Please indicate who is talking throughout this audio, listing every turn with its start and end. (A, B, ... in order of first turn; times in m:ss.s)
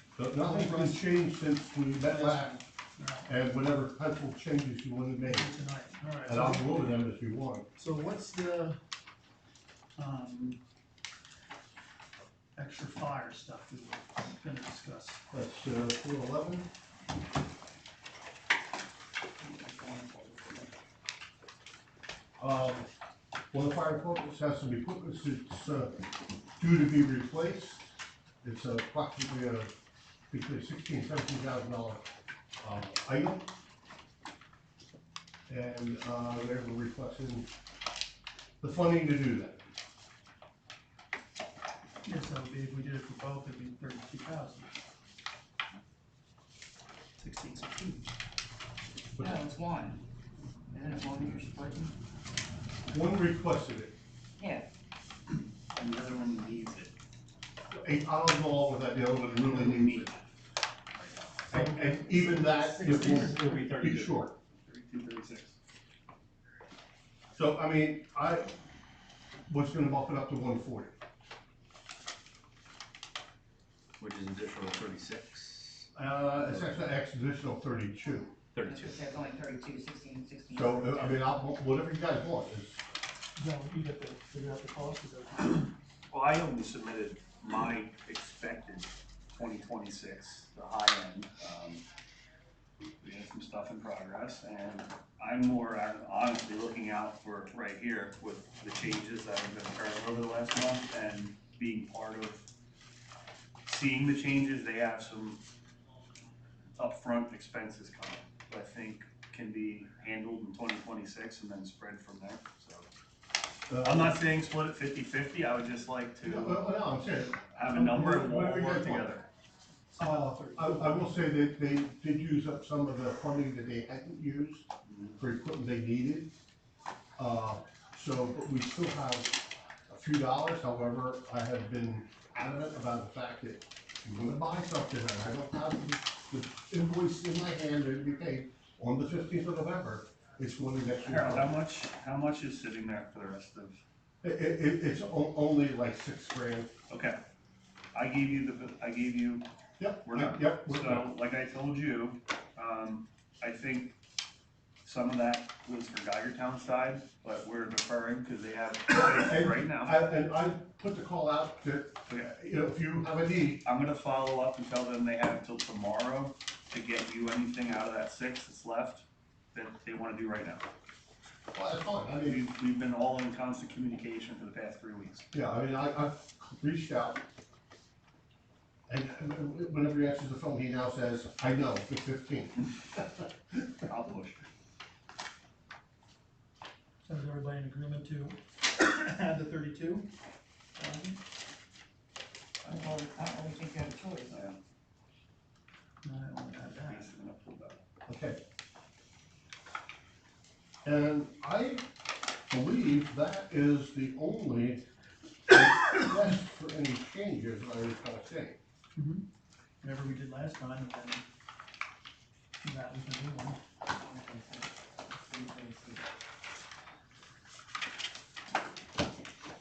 0:00.2-0:02.6 A
0:00.4-0:01.1 B
0:02.0-0:03.3 B
0:03.3-0:05.5 A
0:05.2-0:07.1 B
0:06.2-0:07.7 A
0:07.8-0:08.8 B
0:10.0-0:10.6 B
0:12.6-0:15.2 B
0:15.3-0:16.7 A
0:19.4-0:20.7 C
0:22.4-0:22.9 A
0:23.5-0:26.1 A
0:26.6-0:27.9 A
0:28.4-0:29.7 A
0:30.3-0:32.1 A
0:32.6-0:33.5 A
0:35.5-0:37.5 A
0:38.6-0:39.6 A
0:42.0-0:44.8 B
0:47.2-0:48.1 B
0:49.2-0:50.0 C
0:50.7-0:52.0 C
0:52.9-0:53.9 A
0:54.4-0:54.7 C
0:55.7-0:56.9 D
0:57.7-1:00.1 A
0:59.4-1:00.3 D
1:01.0-1:01.3 D
1:01.5-1:03.7 B
1:01.5-1:04.3 A
1:02.9-1:05.6 D
1:07.4-1:08.5 A
1:09.5-1:10.9 A
1:14.0-1:15.9 E
1:15.9-1:18.4 A
1:16.4-1:16.7 E
1:18.5-1:19.0 E
1:18.7-1:21.2 C
1:20.5-1:22.8 A
1:23.4-1:25.7 B
1:26.1-1:31.8 D
1:33.0-1:42.5 D
1:43.7-1:45.4 D
1:46.8-1:52.9 D
1:53.7-1:54.2 A
1:53.8-1:56.7 D
1:56.2-1:59.2 A
1:57.5-1:59.3 D
1:59.9-2:01.2 B
2:00.0-2:06.3 A
2:07.2-2:21.5 A
2:21.0-2:23.8 D
2:24.2-2:26.7 A
2:26.9-2:27.2 D
2:27.9-2:29.5 D
2:29.8-2:31.1 A
2:30.0-2:34.0 D
2:34.8-2:40.0 D
2:38.9-2:43.6 A
2:42.1-2:42.3 D
2:43.6-2:50.6 D
2:51.5-2:52.4 A
2:52.2-2:55.3 D
2:55.3-2:57.2 A
2:58.9-3:03.9 A
3:03.9-3:04.5 D
3:07.0-3:10.1 B
3:10.8-3:11.2 C
3:12.6-3:14.5 C
3:14.3-3:14.6 D
3:16.0-3:17.1 B
3:16.8-3:17.8 D
3:18.1-3:18.4 A
3:20.8-3:21.9 A
3:22.5-3:24.8 A
3:25.5-3:28.6 A
3:29.0-3:29.2 B
3:29.8-3:31.2 B
3:32.6-3:33.6 B
3:34.0-3:36.0 C